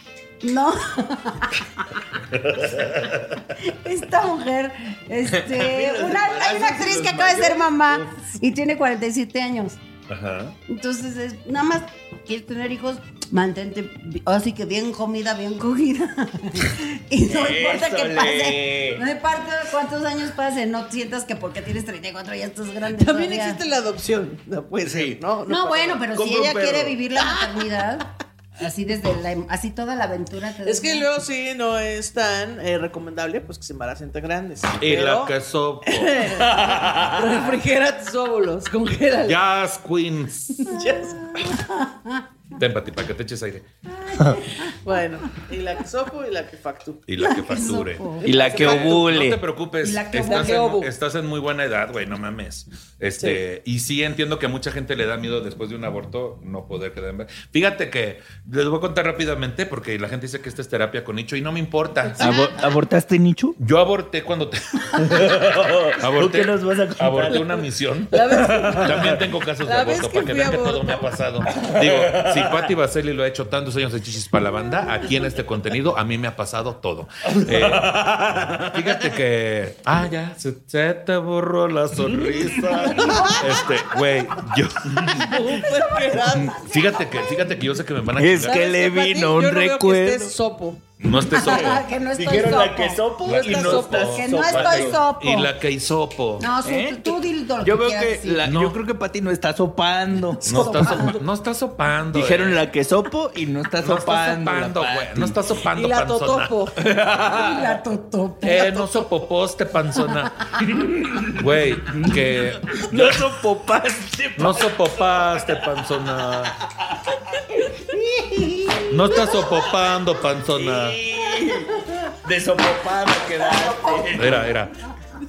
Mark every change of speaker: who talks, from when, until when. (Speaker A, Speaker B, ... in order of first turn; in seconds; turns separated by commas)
Speaker A: 0.4-1.9, Speaker B: 2.3-3.4, Speaker A: 3.6-9.8, Speaker C: 5.3-8.2, Speaker B: 10.1-10.6, Speaker A: 10.7-23.6, Speaker C: 17.2-19.1, Speaker D: 22.9-26.1, Speaker C: 24.8-25.2, Speaker A: 25.5-31.1, Speaker C: 26.1-27.0, Speaker D: 30.6-35.3, Speaker B: 34.8-37.0, Speaker D: 35.9-36.6, Speaker C: 36.5-37.2, Speaker D: 37.1-39.4, Speaker B: 39.2-40.7, Speaker D: 40.6-41.6, Speaker A: 41.3-42.2, Speaker B: 42.5-43.6, Speaker A: 43.9-44.8, Speaker D: 44.7-47.0, Speaker B: 47.1-62.4, Speaker A: 47.2-48.3, Speaker D: 48.2-49.1, Speaker C: 48.2-49.4, Speaker A: 49.8-50.6, Speaker D: 50.3-50.9, Speaker C: 62.2-63.6, Speaker D: 62.2-62.5, Speaker B: 63.6-68.2, Speaker C: 65.0-67.6, Speaker D: 68.1-69.1, Speaker C: 68.1-69.2, Speaker B: 68.8-85.4, Speaker D: 69.6-71.1, Speaker C: 71.5-72.7, Speaker C: 77.3-79.0, Speaker C: 82.2-83.1, Speaker D: 83.1-83.4, Speaker A: 83.1-83.4, Speaker D: 85.2-86.6, Speaker A: 85.5-87.5, Speaker B: 86.7-88.6, Speaker C: 88.2-90.3, Speaker D: 88.4-90.8, Speaker C: 91.0-95.0, Speaker B: 91.0-91.8, Speaker A: 91.3-93.0, Speaker B: 93.2-96.5, Speaker D: 93.3-94.1, Speaker A: 94.0-95.5, Speaker A: 96.4-98.5, Speaker C: 96.6-101.1, Speaker B: 98.4-98.8, Speaker B: 100.4-102.6, Speaker A: 100.8-101.1, Speaker C: 102.1-105.4, Speaker B: 103.8-106.6, Speaker D: 105.8-106.8, Speaker C: 106.8-107.8, Speaker A: 107.3-109.0, Speaker B: 108.4-110.6, Speaker C: 110.6-114.9, Speaker B: 111.3-113.3, Speaker B: 114.4-116.6, Speaker C: 117.9-119.0, Speaker B: 118.9-121.0, Speaker C: 120.5-124.5, Speaker A: 123.6-124.1, Speaker B: 124.1-124.8